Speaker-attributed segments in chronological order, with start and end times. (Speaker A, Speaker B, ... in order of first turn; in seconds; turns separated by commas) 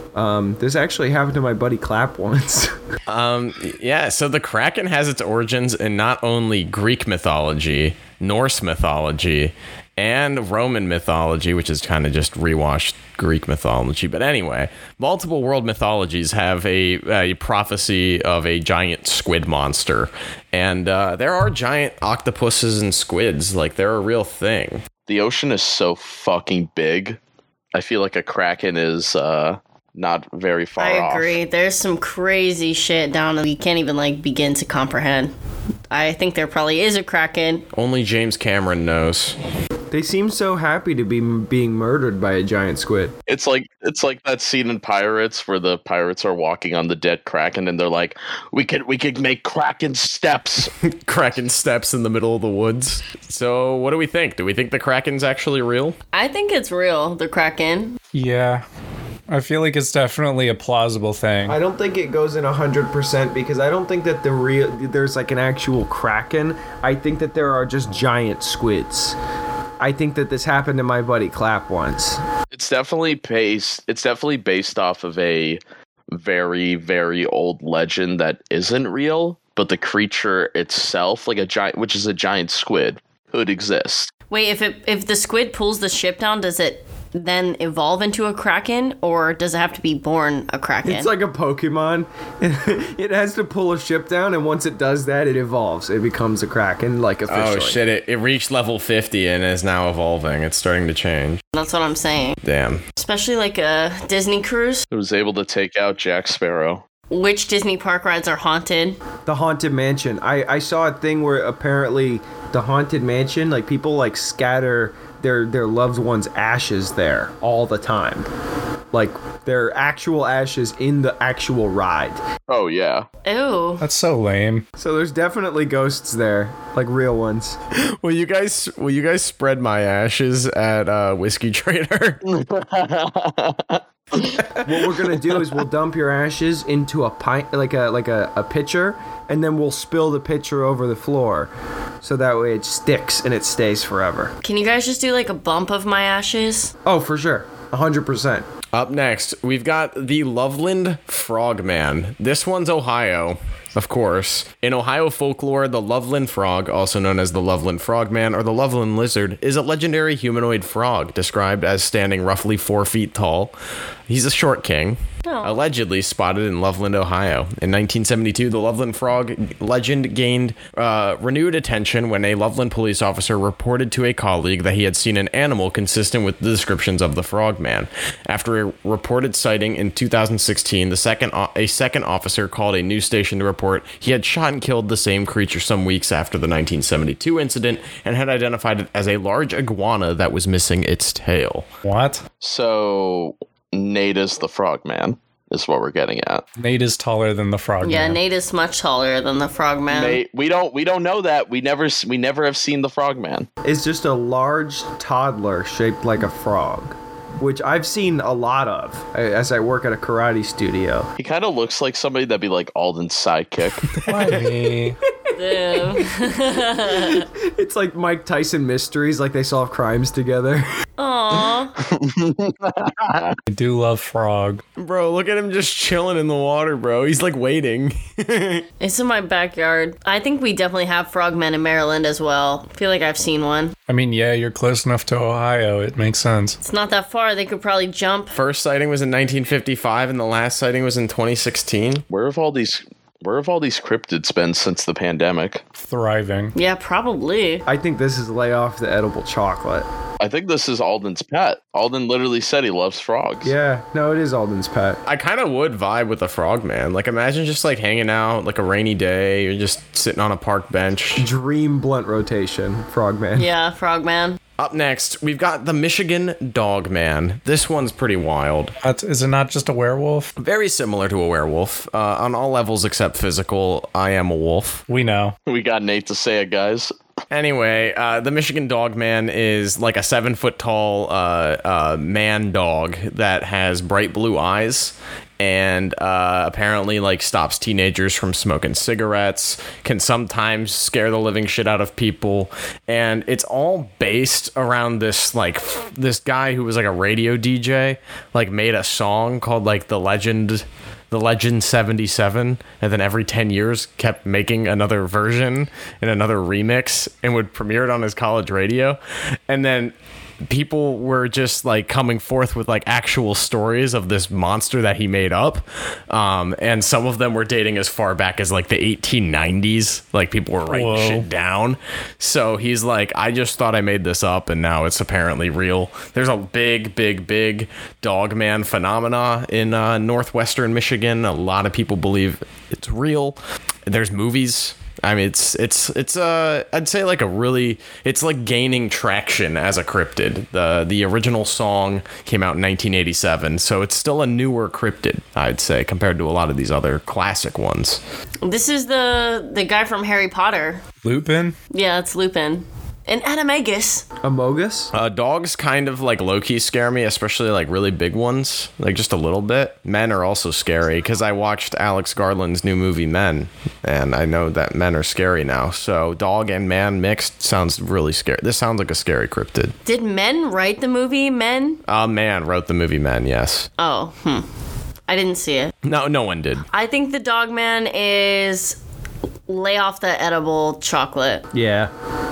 Speaker A: 0.1-2.8, Speaker B: 3.1-24.8, Speaker C: 25.1-27.2, Speaker C: 27.7-31.4, Speaker D: 30.8-35.3, Speaker D: 35.9-37.7, Speaker B: 37.7-39.4, Speaker A: 39.9-43.1, Speaker C: 43.3-50.7, Speaker B: 50.8-56.0, Speaker D: 56.1-58.0, Speaker E: 58.1-58.6, Speaker E: 59.3-61.6, Speaker A: 61.5-69.2, Speaker A: 69.8-72.2, Speaker C: 72.5-84.1, Speaker D: 84.3-91.1, Speaker A: 90.8-97.8, Speaker B: 97.3-101.4, Speaker D: 101.5-102.4, Speaker B: 102.4-102.8, Speaker D: 103.0-104.8, Speaker C: 104.9-106.8, Speaker D: 107.1-109.0, Speaker A: 109.2-118.3, Speaker A: 118.9-122.2, Speaker C: 122.5-123.1, Speaker D: 123.2-123.8, Speaker E: 123.8-124.7, Speaker A: 124.8-127.6, Speaker B: 127.8-132.2, Speaker C: 132.3-134.6, Speaker A: 134.6-144.3, Speaker D: 144.4-146.7, Speaker A: 146.8-148.5, Speaker B: 148.7-163.5, Speaker B: 164.1-191.7, Speaker D: 165.2-165.6, Speaker E: 191.8-192.2, Speaker C: 192.4-196.4, Speaker E: 196.6-198.2, Speaker D: 197.8-200.2, Speaker C: 199.9-203.5, Speaker A: 203.6-211.1, Speaker C: 211.2-213.9, Speaker E: 214.0-215.0, Speaker A: 215.1-216.1, Speaker D: 215.4-217.3, Speaker A: 216.8-220.7, Speaker D: 221.0-221.8, Speaker C: 221.8-223.4, Speaker E: 223.5-224.6, Speaker B: 224.8-228.7, Speaker D: 228.8-233.8, Speaker E: 233.9-236.6, Speaker D: 236.6-238.3, Speaker B: 238.3-242.0, Speaker C: 242.1-245.6, Speaker E: 245.8-246.5, Speaker D: 246.6-247.6, Speaker A: 247.7-249.9, Speaker C: 250.2-253.5, Speaker A: 253.4-255.0, Speaker B: 255.1-261.3, Speaker A: 261.2-263.5, Speaker D: 263.4-264.4, Speaker B: 264.6-268.8, Speaker E: 268.8-270.3, Speaker B: 270.4-274.9, Speaker E: 274.9-275.4, Speaker C: 275.5-276.9, Speaker B: 277.3-348.0, Speaker E: 320.7-321.3, Speaker D: 348.4-350.8, Speaker E: 351.0-351.6, Speaker D: 351.7-354.1, Speaker A: 354.2-354.9, Speaker B: 354.9-369.8, Speaker D: 369.9-371.8, Speaker B: 371.9-373.7, Speaker D: 373.8-374.5, Speaker D: 375.1-375.7, Speaker B: 375.8-376.7, Speaker D: 376.7-378.8, Speaker D: 379.5-381.5, Speaker A: 381.5-381.9